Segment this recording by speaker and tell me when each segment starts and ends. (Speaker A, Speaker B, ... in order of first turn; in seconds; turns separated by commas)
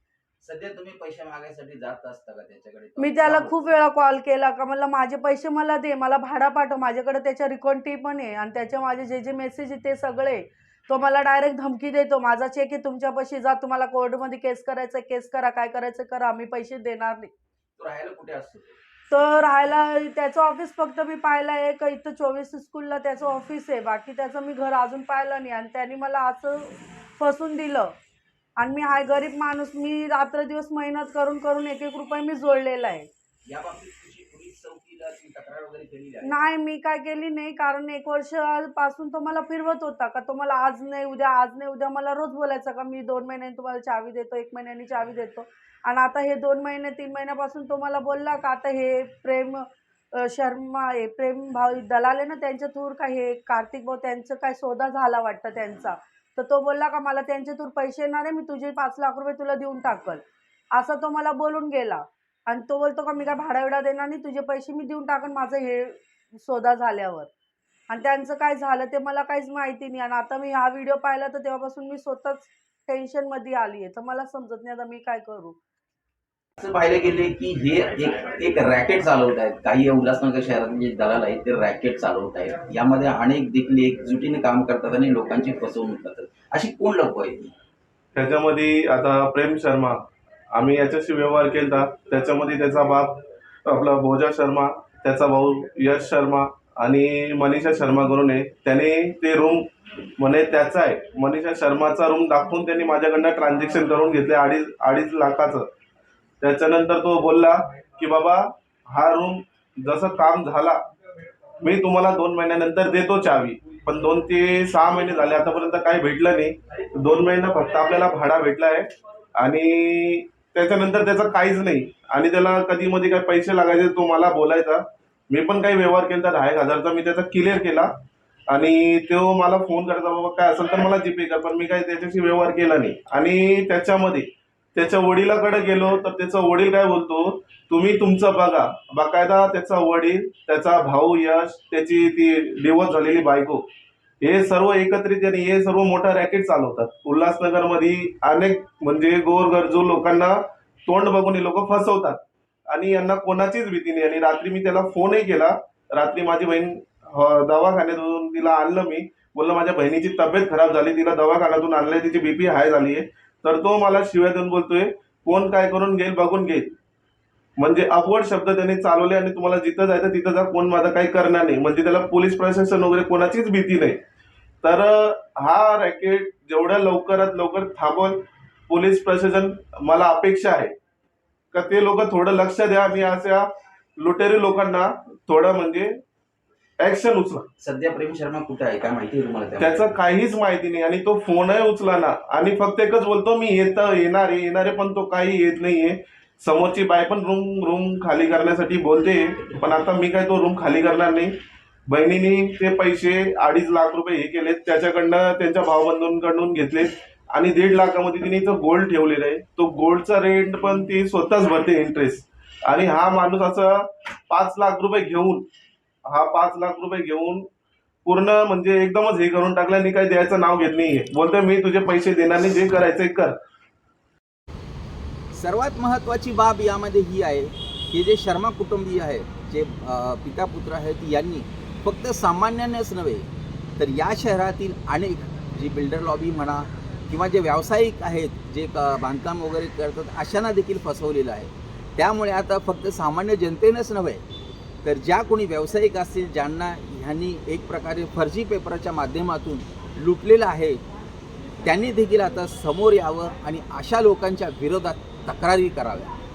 Speaker A: 0.4-3.6, Speaker B: 3.0-17.3, Speaker A: 17.8-18.8, Speaker B: 19.1-27.9, Speaker B: 28.6-33.1, Speaker A: 33.5-36.5, Speaker B: 36.2-60.2, Speaker B: 60.7-67.3, Speaker B: 67.9-75.6, Speaker A: 76.6-87.5, Speaker C: 88.2-105.7, Speaker C: 106.4-110.8, Speaker C: 111.6-127.9, Speaker C: 128.5-143.7, Speaker C: 144.2-166.8, Speaker C: 167.6-174.0, Speaker C: 174.6-180.7, Speaker C: 181.5-186.0, Speaker C: 186.8-187.5, Speaker A: 187.6-189.8, Speaker C: 189.6-201.3, Speaker C: 201.9-215.5, Speaker C: 216.1-217.5, Speaker C: 218.1-223.4, Speaker A: 225.3-233.3, Speaker A: 233.8-244.2, Speaker A: 244.8-250.8, Speaker A: 251.6-256.1